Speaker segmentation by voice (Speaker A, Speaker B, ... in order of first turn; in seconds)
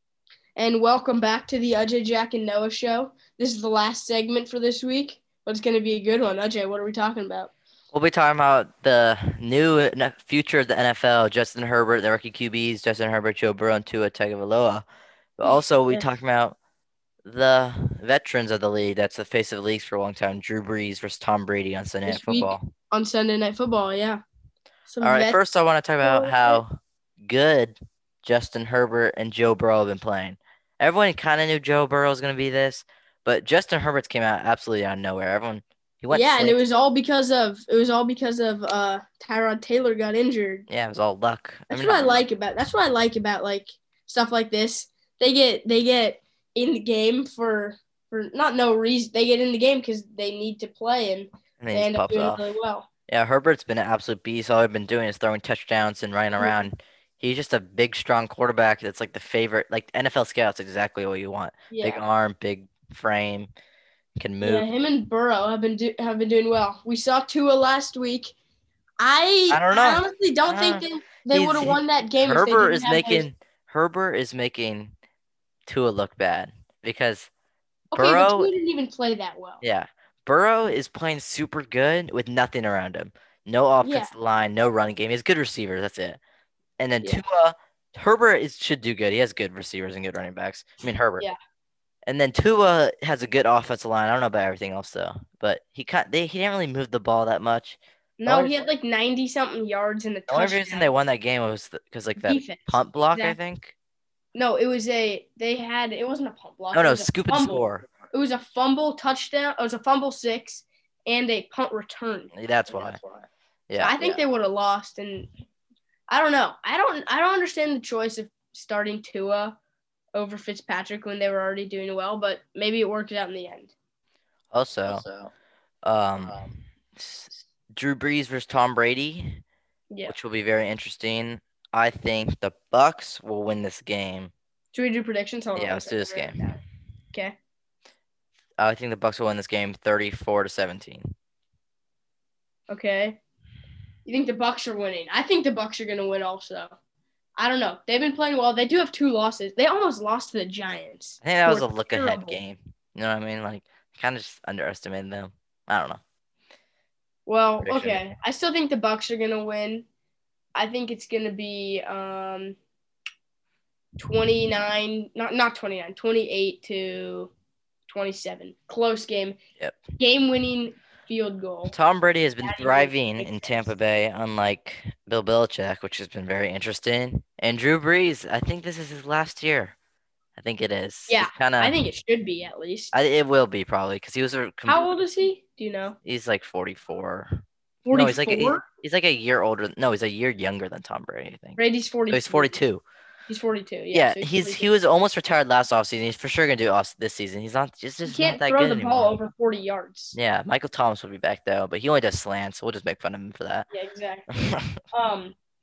Speaker A: 0.6-7.5, 15.4-16.1, 22.1-24.2, 24.9-25.4, 26.0-26.6, 36.1-40.6, 41.7-52.9, 61.7-62.0, 64.4-68.3, 69.0-73.3, 77.9-79.6, 83.8-84.1, 98.2-100.9, 102.2-103.4, 104.3-115.3, 116.1-119.6, 120.1-123.7, 124.8-125.3, 126.2-126.5, 129.9-130.2, 134.7-136.6, 142.7-143.2, 144.1-146.7, 147.4-152.4, 157.2-159.9, 160.5-162.6, 164.0-167.3, 167.9-169.4, 170.0-171.7, 172.4-173.7, 181.1-182.9, 184.6-185.9, 187.8-188.6, 191.6-192.5, 193.3-194.7, 198.1-200.2, 203.7-204.3, 204.9-205.3
Speaker B: 7.9-14.8, 15.4-16.6, 17.2-22.7, 25.0-36.6, 40.7-42.2, 51.6-52.4, 53.1-63.5, 64.2-64.7, 69.5-74.9, 75.7-77.3, 77.9-78.5, 79.6-86.2, 86.8-91.3, 92.0-98.5, 100.3-103.7, 106.7-107.9, 112.3-113.0, 113.7-114.2, 124.5-125.0, 125.8-129.4, 130.1-134.3, 135.5-136.5, 138.6-141.1, 151.2-156.0, 157.6-158.0, 171.7-179.7, 180.3-181.8, 182.9-184.8, 186.0-191.6, 192.1-192.8, 193.9-199.1, 200.1-203.7, 204.3-204.8